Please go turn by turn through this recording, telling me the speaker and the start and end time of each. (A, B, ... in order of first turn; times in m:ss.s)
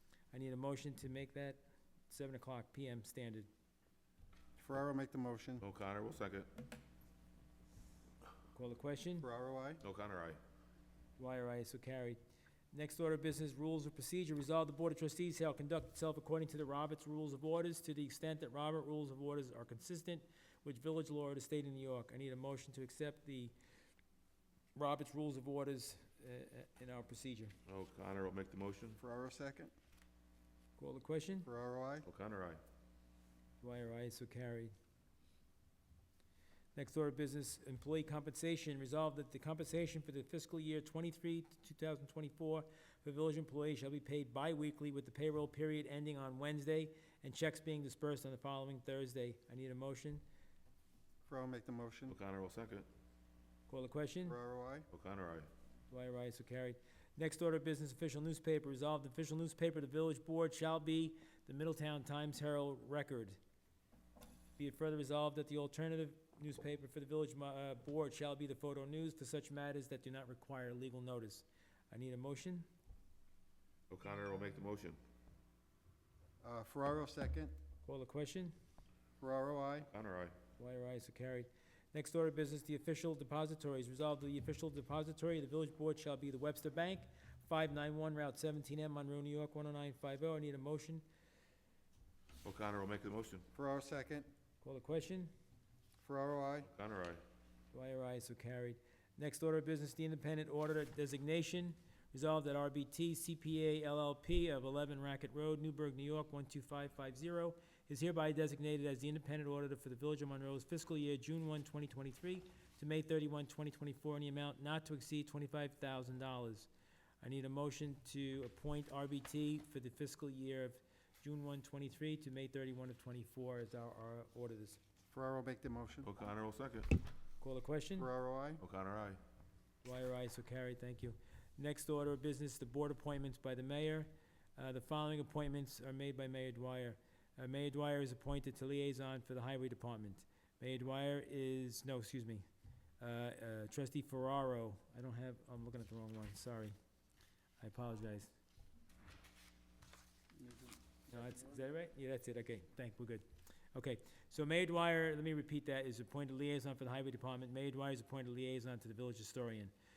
0:00.3-0:03.5 A
0:04.6-0:05.6 B
0:05.6-0:06.5 C
0:08.5-0:09.3 A
0:09.2-0:09.8 B
0:09.8-0:10.4 C
0:11.2-0:12.2 A
0:12.7-0:23.5 A
0:24.7-0:27.5 A
0:27.7-0:29.0 C
0:29.0-0:29.7 B
0:30.8-0:31.5 A
0:31.4-0:32.0 B
0:32.0-0:32.6 C
0:33.6-0:34.7 A
0:36.7-0:50.2 A
0:51.2-0:52.1 B
0:52.1-0:52.9 C
0:53.7-0:54.4 A
0:54.2-0:54.9 B
0:54.9-0:55.5 C
0:55.9-1:03.4 A
1:04.6-1:12.7 A
1:13.9-1:15.0 C
1:16.4-1:17.5 B
1:17.8-1:18.5 A
1:19.2-1:19.9 B
1:19.9-1:20.3 C
1:20.6-1:31.0 A
1:32.4-1:33.4 C
1:33.5-1:34.3 B
1:34.6-1:35.3 A
1:36.0-1:36.7 B
1:36.7-1:37.2 C
1:37.7-1:56.7 A
1:57.2-2:04.8 A
2:05.1-2:06.1 B
2:06.0-2:06.9 C
2:07.4-2:08.1 A
2:08.0-2:08.6 B
2:08.6-2:09.2 C
2:09.8-2:22.4 A
2:23.0-2:26.7 A
2:27.6-2:28.3 A
2:30.4-2:31.5 B
2:31.1-2:39.7 A